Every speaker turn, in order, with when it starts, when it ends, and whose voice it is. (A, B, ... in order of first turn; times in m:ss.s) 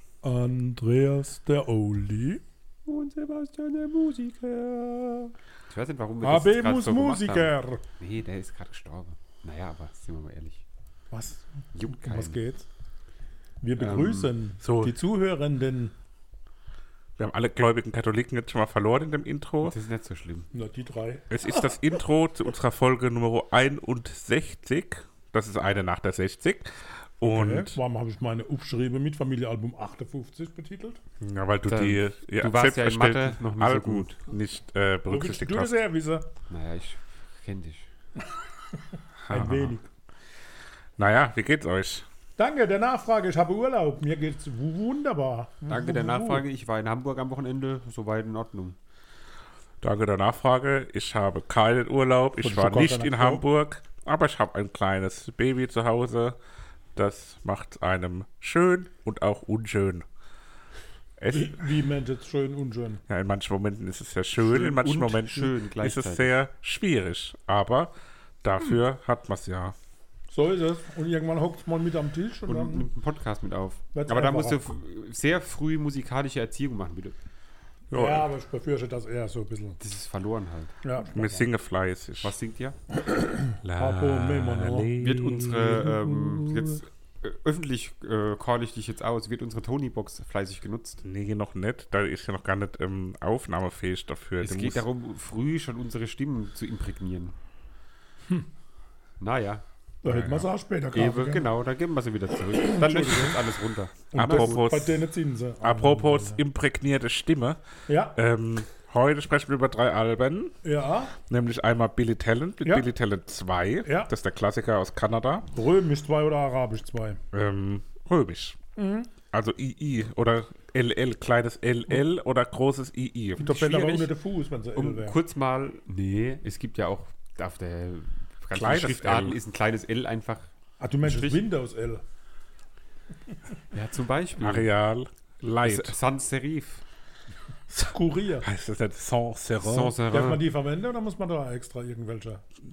0:00.2-0:02.4 A
0:02.9-0:10.6 B
0:06.2-0:07.8 A
0:11.1-0:12.6 A
0:11.7-0:12.4 B
0:13.6-0:15.9 A
0:13.8-0:14.3 B
0:14.6-0:14.9 C
0:17.2-0:19.7 C
0:19.6-0:20.5 B
0:20.5-0:21.3 A
0:21.3-0:27.8 C
0:27.2-0:31.0 A
0:31.2-0:35.8 C
0:31.7-0:34.2 B
0:35.1-0:36.3 A
0:36.5-0:37.9 B
0:39.2-0:39.8 C
0:39.3-0:39.9 A
0:41.0-0:42.1 C
0:42.4-0:46.4 A
0:45.7-0:48.8 B
0:49.8-0:56.4 C
0:52.4-0:53.4 A
0:56.9-1:00.0 C
1:01.2-1:01.6 C
1:01.3-1:03.0 A
1:03.1-1:07.9 C
1:04.4-1:06.3 B
1:08.4-1:09.7 C
1:10.3-1:12.9 A
1:12.5-1:17.1 B
1:13.9-1:14.7 A
1:17.9-1:18.3 C
1:17.9-1:19.8 A
1:19.8-1:20.7 B
1:20.8-1:21.5 A
1:21.1-1:22.3 C
1:22.2-1:22.8 B
1:23.0-1:24.9 A
1:23.6-1:26.4 C
1:25.0-1:31.0 B
1:31.0-1:34.8 C
1:34.4-1:37.4 B
1:39.2-1:39.6 B
1:40.0-1:41.5 A
1:40.0-1:40.5 C
1:40.9-1:44.5 B
1:42.5-1:43.4 A
1:44.1-1:46.4 A
1:44.1-1:45.1 C
1:45.6-1:47.6 C
1:47.9-1:48.2 A
1:48.1-1:50.5 C
1:50.6-1:51.1 A
1:51.3-1:55.5 C
1:53.8-1:54.1 A
1:55.5-1:57.2 A
1:57.3-1:58.6 C
1:58.8-1:59.1 A
1:59.3-2:03.5 C
2:03.4-2:04.1 B
2:03.4-2:05.2 A
2:04.7-2:10.5 B
2:08.5-2:09.4 C
2:10.8-2:12.0 A
2:11.0-2:11.4 B
2:13.7-2:14.7 B
2:14.4-2:15.9 C
2:15.6-2:16.8 B
2:17.7-2:20.0 C
2:17.8-2:18.5 A
2:19.6-2:20.4 B
2:20.1-2:22.4 A